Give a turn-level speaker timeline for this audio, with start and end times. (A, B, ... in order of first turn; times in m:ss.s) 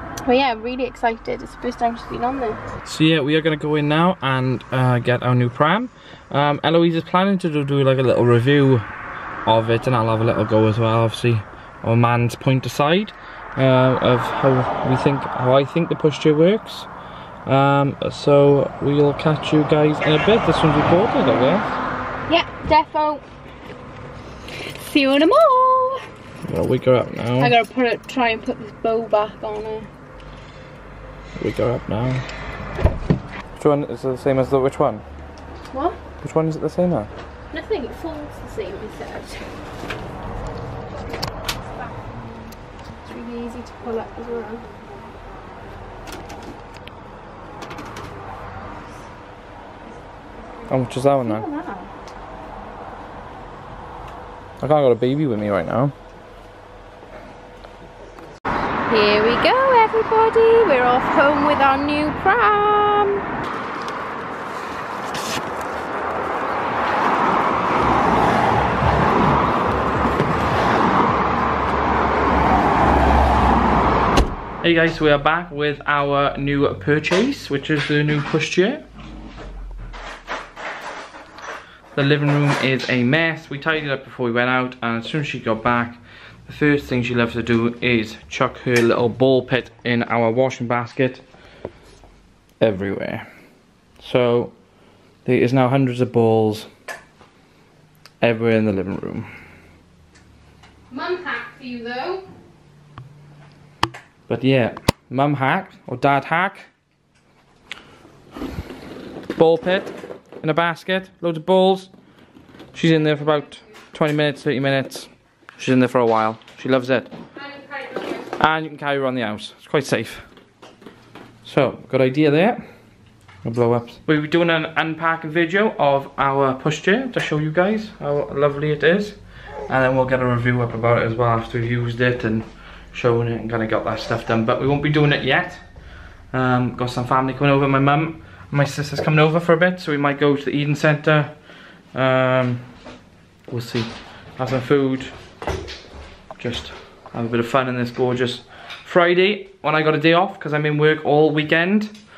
0:00.2-0:02.6 A
0:02.8-0:08.9 B
0:09.4-0:16.9 B
0:17.4-0:21.7 B
0:22.3-0:23.2 A
0:24.6-0:26.0 A
0:26.4-0:27.5 B
0:27.4-0:29.9 A
0:31.4-0:32.2 B
0:33.6-0:35.0 B
0:35.7-0:36.0 A
0:36.2-0:37.1 B
0:37.5-0:39.4 A
0:43.0-0:44.6 A
0:50.7-0:51.5 B
0:51.2-0:51.9 A
0:54.6-0:55.9 B
0:58.9-1:03.2 A
1:14.6-1:18.8 B
1:21.9-1:31.2 B
1:32.6-1:33.2 B
1:34.0-1:34.6 B
1:35.2-1:36.7 B
1:38.2-1:39.3 B
1:40.9-1:42.2 A
1:44.3-1:46.7 B
1:49.4-1:51.9 B
1:52.7-1:57.1 B
1:57.4-1:58.3 A
1:58.4-2:00.3 B
2:01.4-2:02.6 B
2:03.4-2:15.6 B
2:16.3-2:21.4 B
2:21.9-2:22.7 B
2:23.5-2:25.1 B
2:26.4-2:32.0 B